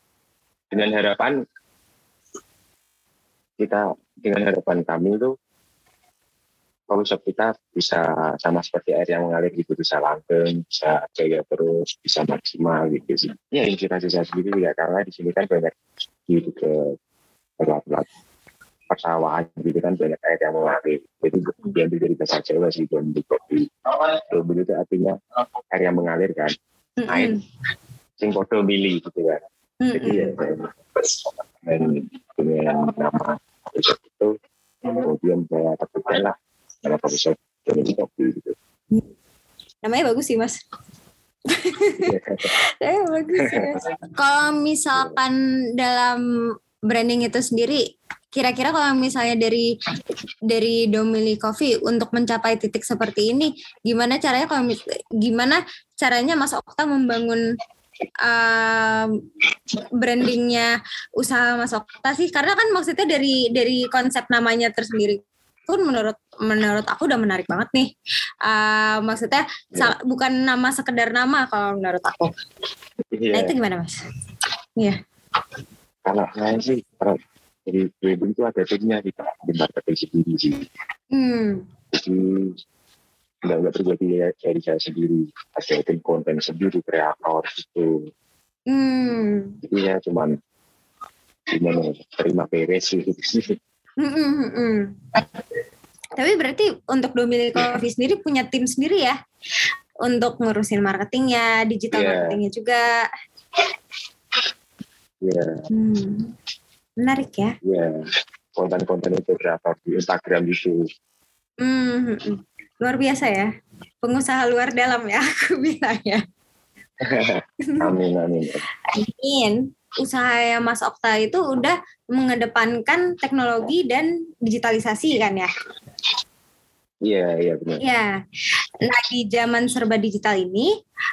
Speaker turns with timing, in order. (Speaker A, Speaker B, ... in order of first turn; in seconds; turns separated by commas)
Speaker A: 0.7-1.4, Speaker A: 3.6-5.3, Speaker A: 6.9-15.7, Speaker A: 16.3-16.8, Speaker A: 17.6-18.1, Speaker A: 18.9-23.6, Speaker A: 24.3-25.1, Speaker A: 25.7-26.5, Speaker B: 27.0-27.4, Speaker A: 28.2-29.4, Speaker B: 29.8-30.3, Speaker A: 29.9-30.7, Speaker A: 31.6-34.3, Speaker A: 35.0-38.5, Speaker B: 39.8-40.6, Speaker B: 41.6-42.0, Speaker A: 42.0-42.5, Speaker B: 42.8-46.2, Speaker B: 46.9-47.8, Speaker B: 48.3-49.7, Speaker B: 50.5-57.4, Speaker B: 58.2-59.1, Speaker B: 60.0-60.7, Speaker B: 61.2-67.9, Speaker B: 68.5-72.3, Speaker A: 73.1-73.5, Speaker B: 73.3-73.9, Speaker A: 76.0-80.6, Speaker B: 81.1-81.6, Speaker A: 81.9-82.5, Speaker A: 83.5-87.9, Speaker B: 88.7-89.5, Speaker A: 89.6-90.3, Speaker A: 91.5-93.4, Speaker B: 94.0-94.9, Speaker B: 96.2-99.2, Speaker B: 100.0-102.9, Speaker A: 101.9-102.4, Speaker A: 105.2-105.5, Speaker B: 105.7-106.3, Speaker B: 107.0-107.5, Speaker A: 107.6-107.9, Speaker A: 108.5-110.8, Speaker B: 111.6-113.5, Speaker B: 114.0-116.2, Speaker A: 117.1-118.6, Speaker B: 118.9-125.5, Speaker A: 127.0-127.8, Speaker B: 127.8-128.1, Speaker B: 128.9-130.7